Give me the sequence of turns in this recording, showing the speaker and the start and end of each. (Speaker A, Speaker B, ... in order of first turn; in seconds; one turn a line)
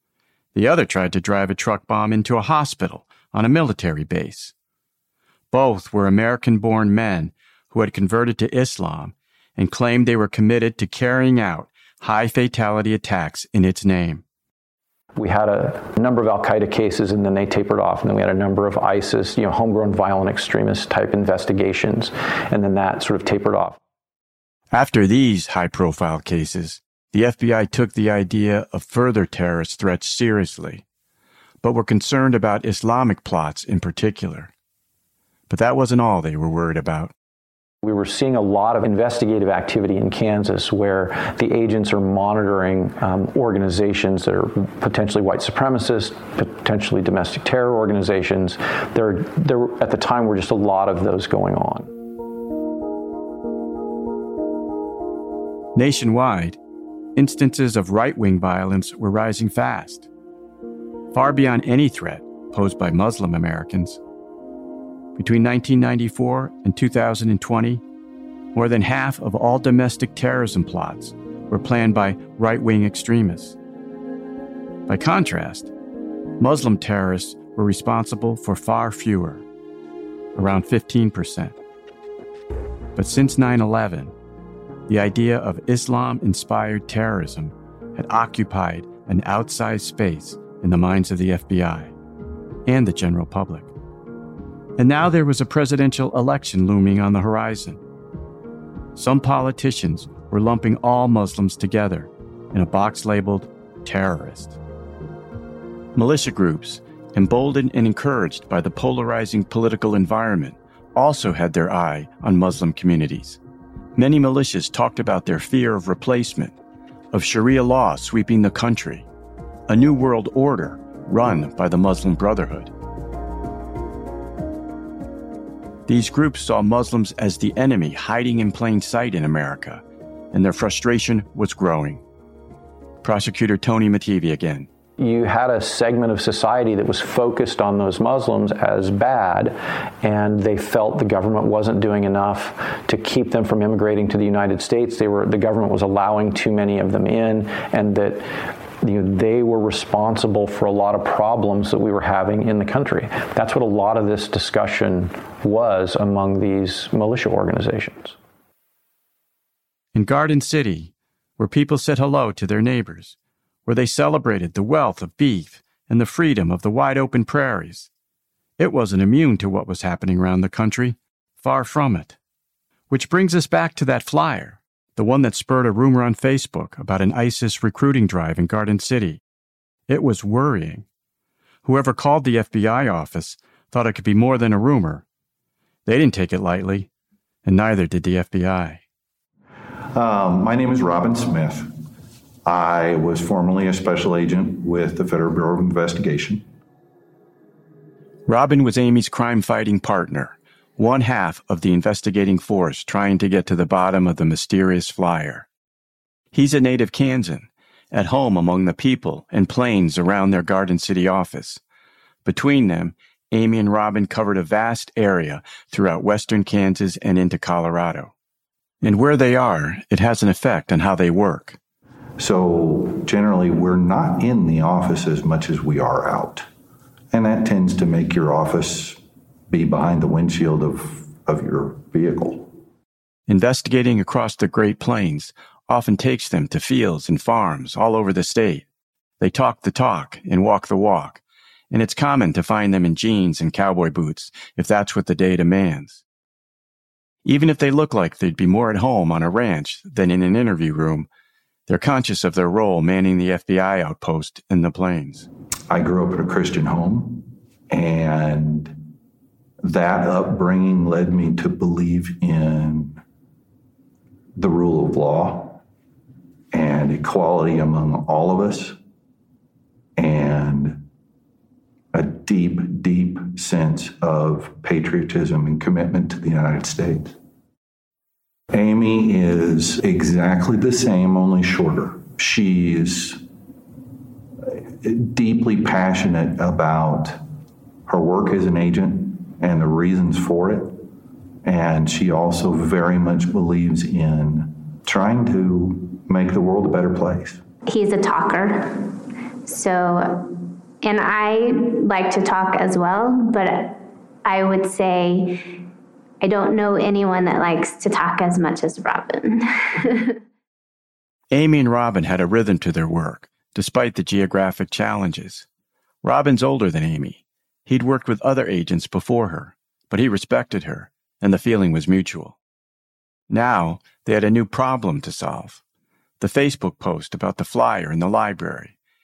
Speaker A: 0.5-4.5
Speaker A: 5.5-14.2
Speaker B: 15.2-23.8
Speaker A: 24.7-30.8
Speaker A: 31.6-34.5
Speaker A: 35.5-37.1
Speaker B: 37.8-51.9
Speaker A: 55.7-56.6
Speaker A: 57.1-60.1
Speaker A: 61.1-64.0
Speaker A: 65.2-67.8
Speaker A: 68.5-73.6
Speaker A: 74.9-75.7
Speaker A: 76.4-79.4
Speaker A: 80.3-81.5
Speaker A: 83.0-84.1
Speaker A: 84.9-91.9
Speaker A: 92.7-93.7
Speaker A: 94.8-97.8
Speaker A: 99.0-104.6
Speaker A: 105.9-113.4
Speaker A: 114.0-116.5
Speaker A: 117.1-119.1
Speaker A: 119.7-122.7
Speaker A: 125.9-132.0
Speaker A: 133.0-134.7
Speaker B: 135.0-158.2
Speaker A: 159.9-167.9
Speaker A: 168.6-172.2
Speaker A: 172.9-179.2
Speaker A: 179.9-180.8
Speaker A: 181.6-185.0
Speaker A: 185.8-186.9
Speaker A: 187.4-188.8
Speaker C: 189.9-191.7
Speaker C: 192.4-196.4
Speaker A: 198.3-205.5
Speaker A: 206.3-211.6
Speaker A: 212.2-218.1
Speaker A: 218.8-221.6
Speaker C: 222.2-226.4
Speaker C: 227.1-229.0
Speaker C: 229.5-232.5
Speaker A: 233.3-238.7
Speaker A: 239.2-246.0
Speaker A: 247.2-251.1
Speaker A: 251.7-255.3
Speaker C: 255.7-258.8
Speaker C: 259.6-263.0
Speaker C: 264.4-265.6
Speaker C: 266.5-268.8
Speaker C: 270.0-270.8
Speaker C: 271.9-277.1
Speaker C: 278.5-283.2
Speaker C: 284.8-287.2
Speaker C: 287.9-290.8
Speaker C: 291.4-297.4
Speaker D: 297.7-298.8
Speaker D: 299.4-305.4
Speaker D: 306.2-310.2
Speaker A: 311.3-315.4
Speaker A: 316.0-322.4
Speaker A: 323.3-325.6
Speaker A: 326.2-328.7